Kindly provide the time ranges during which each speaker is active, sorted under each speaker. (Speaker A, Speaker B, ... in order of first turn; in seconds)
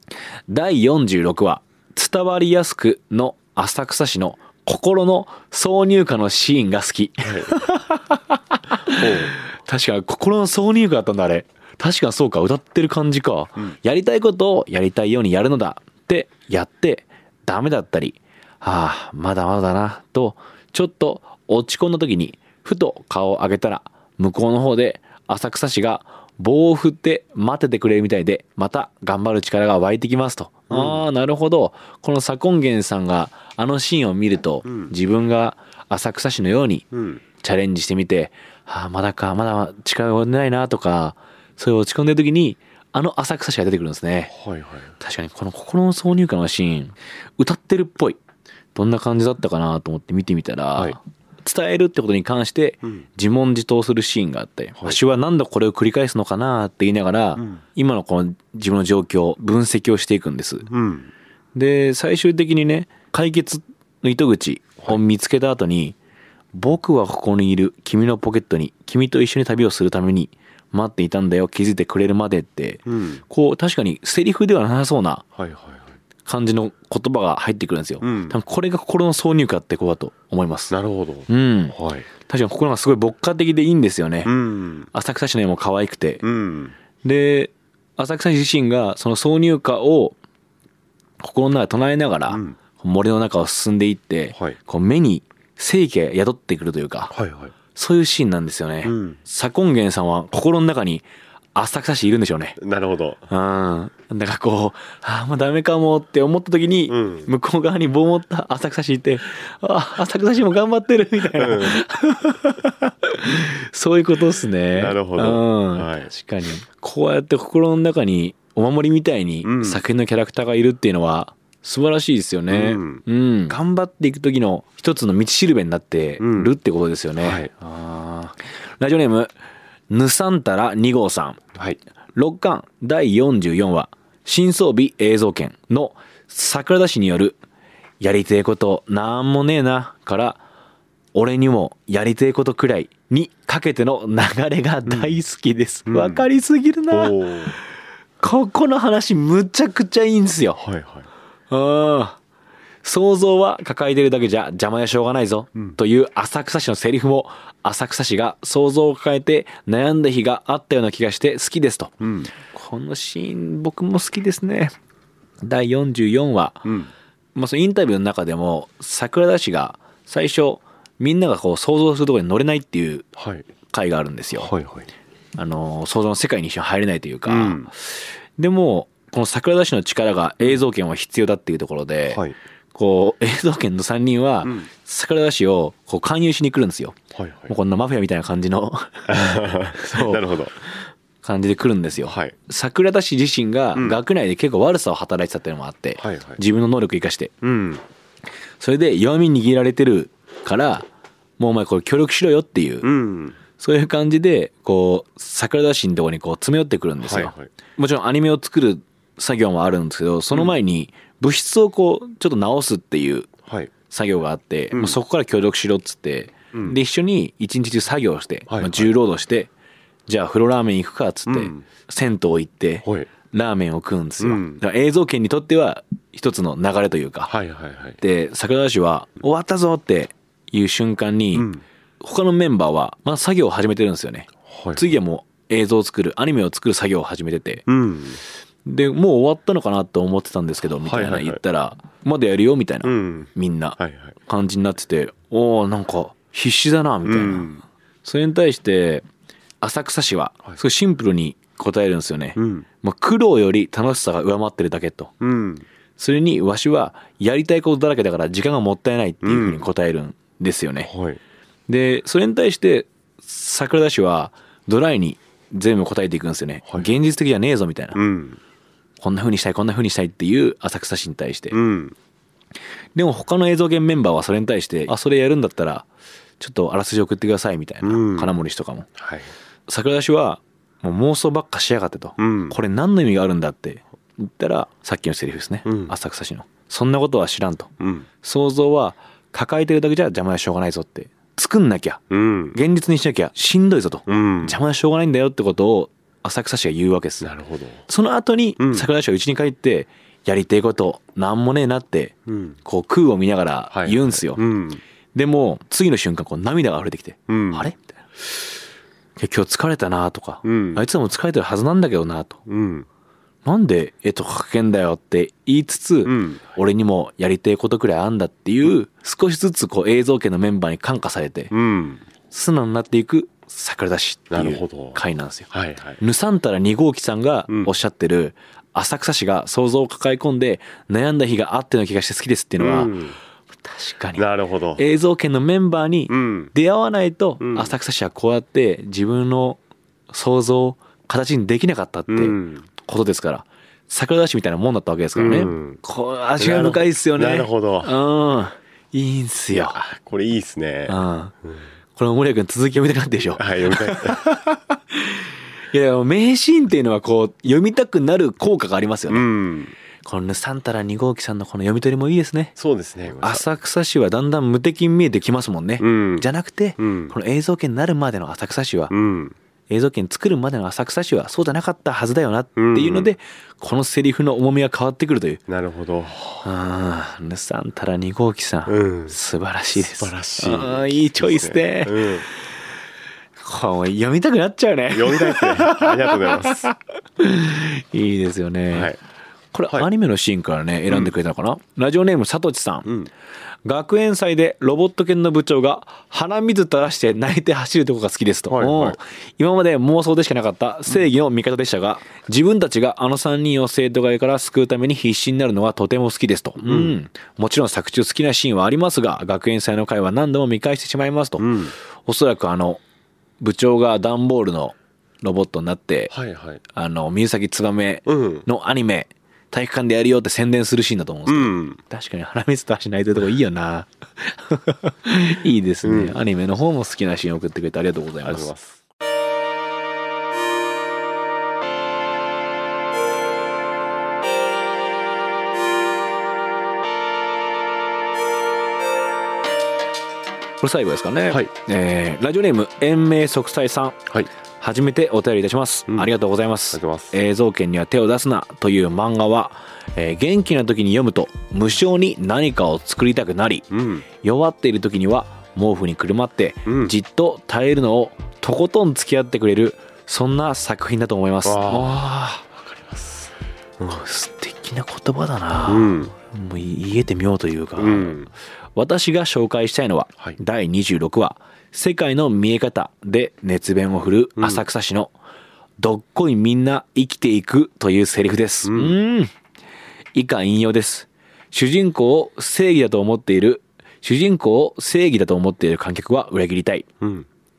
Speaker A: 0.5-36.9, 37.4-44.3, 45.0-48.2, 48.7-60.7, 61.5-66.0, 66.5-75.2, 76.2-80.8, 81.3-84.3, 84.9-86.2, 87.0-90.2, 91.2-97.2, 97.7-102.6, 103.3-129.3, 129.9-131.4, 132.1-137.4, 138.0-140.4, 141.1-147.3, 148.2-150.6, 151.5-152.2, 152.8-164.7, 165.4-166.7, 167.3-173.1, 173.7-174.5, 175.3-187.0, 187.5-190.3, 191.2-197.3, 198.6-200.9, 201.4-203.0, 203.6-213.3, 213.9-219.5, 220.1-227.3, 228.0-237.7, 238.7-249.1, 249.6-255.2, 256.0-260.9, 261.7-268.0, 269.0-271.6, 272.9-275.9, 276.4-278.9, 279.7-287.7, 288.2-297.4, 297.9-304.4, 305.1-308.0, 309.2-312.4, 313.4-321.5, 322.3-332.9, 333.6-339.6, 340.1-349.8, 350.9-351.3, 351.9-359.3, 360.0-362.6, 363.2-368.9, 369.7-375.4, 376.4-382.3, 383.4-388.9, 389.5-393.0, 393.6-412.8, 413.4-416.1, 416.7-428.5, 440.6-462.5, 463.9-475.1, 475.8-479.3, 480.1-486.9
Speaker B: 7.2-7.6, 8.9-9.4, 30.7-31.0, 34.7-34.9, 36.9-37.2, 44.3-44.9, 60.7-61.1, 72.9-73.2, 75.3-75.9, 78.0-78.4, 80.7-82.1, 84.2-84.9, 86.2-86.8, 92.3-92.6, 97.1-97.5, 98.8-99.2, 102.6-103.2, 106.9-107.3, 111.4-111.8, 114.7-116.1, 119.4-119.8, 122.5-123.0, 126.2-126.5, 127.2-127.5, 144.9-145.1, 145.9-146.2, 146.9-147.6, 150.6-151.1, 162.0-162.3, 166.7-166.9, 173.2-173.5, 174.3-174.9, 177.3-177.7, 182.1-182.4, 187.1-187.5, 189.1-190.7, 192.1-192.3, 196.0-196.4, 197.4-197.8, 202.8-203.4, 207.0-207.5, 213.5-213.7, 214.7-215.0, 216.5-216.8, 218.5-218.9, 221.3-221.7, 222.8-223.1, 224.2-224.6, 227.3-228.0, 231.3-231.6, 234.5-234.8, 237.7-238.2, 240.8-241.4, 242.8-244.2, 247.0-247.6, 252.3-252.7, 255.2-255.7, 259.2-259.6, 260.9-261.2, 267.9-268.4, 271.5-271.9, 277.8-278.4, 279.0-279.3, 282.2-282.6, 285.6-285.9, 287.8-288.1, 292.1-292.6, 294.1-294.6, 297.2-297.8, 298.6-298.9, 302.3-302.6, 303.7-304.8, 307.3-307.7, 310.4-310.9, 312.5-312.9, 316.0-316.5, 321.5-322.0, 324.3-326.0, 332.6-333.2, 334.1-334.8, 336.1-336.5, 337.4-337.7, 342.1-342.7, 345.1-345.8, 346.4-348.0, 349.5-351.5, 353.3-354.3, 359.1-359.8, 362.6-363.5, 365.8-367.1, 368.9-369.4, 372.6-373.1, 375.5-376.5, 378.7-379.1, 379.7-382.3, 384.9-386.7, 388.7-389.0, 398.5-399.0, 406.6-407.0, 411.4-411.8, 416.1-416.6, 418.1-418.5, 421.2-421.8, 425.8-426.2, 428.2-428.8, 446.7-447.2, 453.7-454.1, 456.6-456.9, 461.4-464.0, 465.6-466.1, 467.8-468.3, 474.4-474.6, 478.6-479.0, 487.0-487.3